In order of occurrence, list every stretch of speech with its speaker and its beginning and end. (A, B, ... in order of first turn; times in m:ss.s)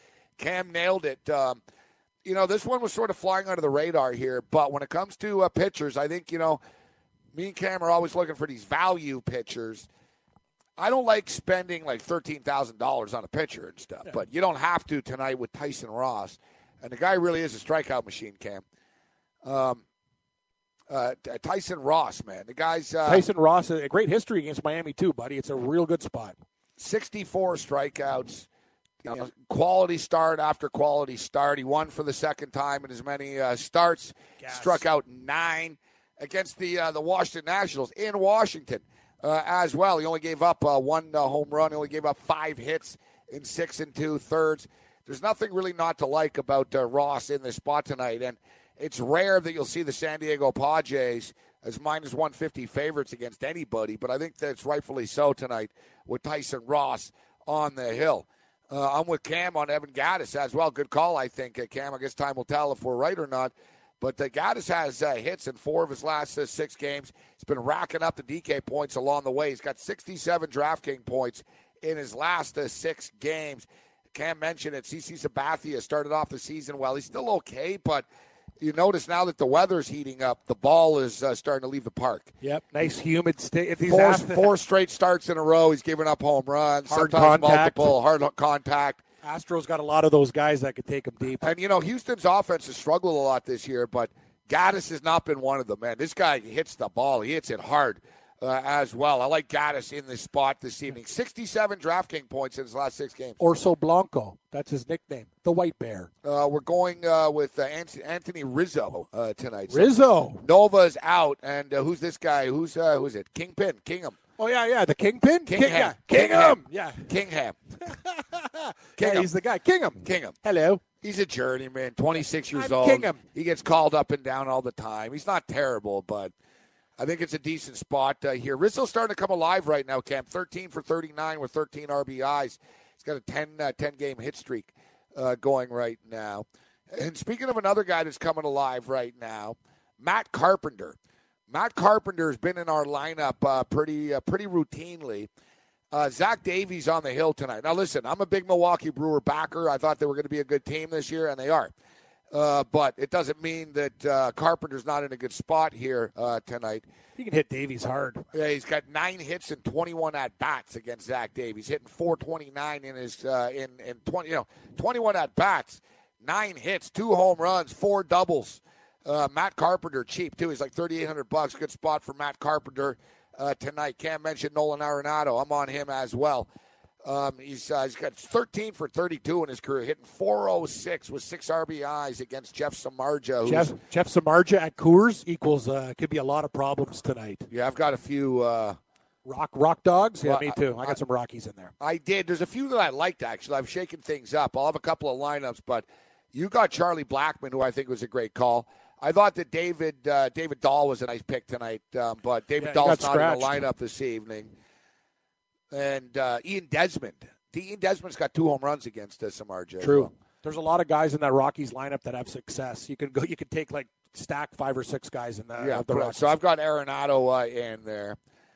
0:00.4-0:01.6 A
0:02.2-0:06.6 A
0:07.3-0:09.9 A
0:10.8-0:18.6 A
0:19.4-0:19.8 A
0:20.9-0:23.2 A
0:23.0-0:26.4 B
0:26.8-0:28.5 A
0:29.0-1:18.1 A
0:34.4-0:34.8 B
1:18.6-1:22.3 A
1:22.4-1:24.6 B
1:23.9-1:29.0 A
1:26.9-1:28.0 B
1:29.2-1:31.5 B
1:31.4-1:43.4 A
1:43.4-1:46.1 B
1:46.2-1:54.2 A
1:49.7-1:50.4 B
1:54.4-1:57.1 B
1:55.5-1:57.6 A
1:57.8-2:00.8 B
1:59.0-1:59.3 A
2:00.0-2:00.4 A
2:01.0-2:06.3 A
2:02.5-2:03.2 B
2:07.0-2:21.0 A
2:21.5-2:25.3 A
2:25.9-2:31.7 A
2:32.3-2:36.8 A
2:37.2-2:38.2 B
2:38.3-2:56.5 A
2:57.0-3:03.7 A
3:03.4-3:07.5 B
3:07.5-3:08.8 A
3:09.2-3:11.7 B
3:10.2-3:11.0 A
3:11.8-3:24.5 A
3:22.6-3:23.6 B
3:25.7-3:30.1 A
3:29.8-3:36.3 B
3:35.6-3:38.2 A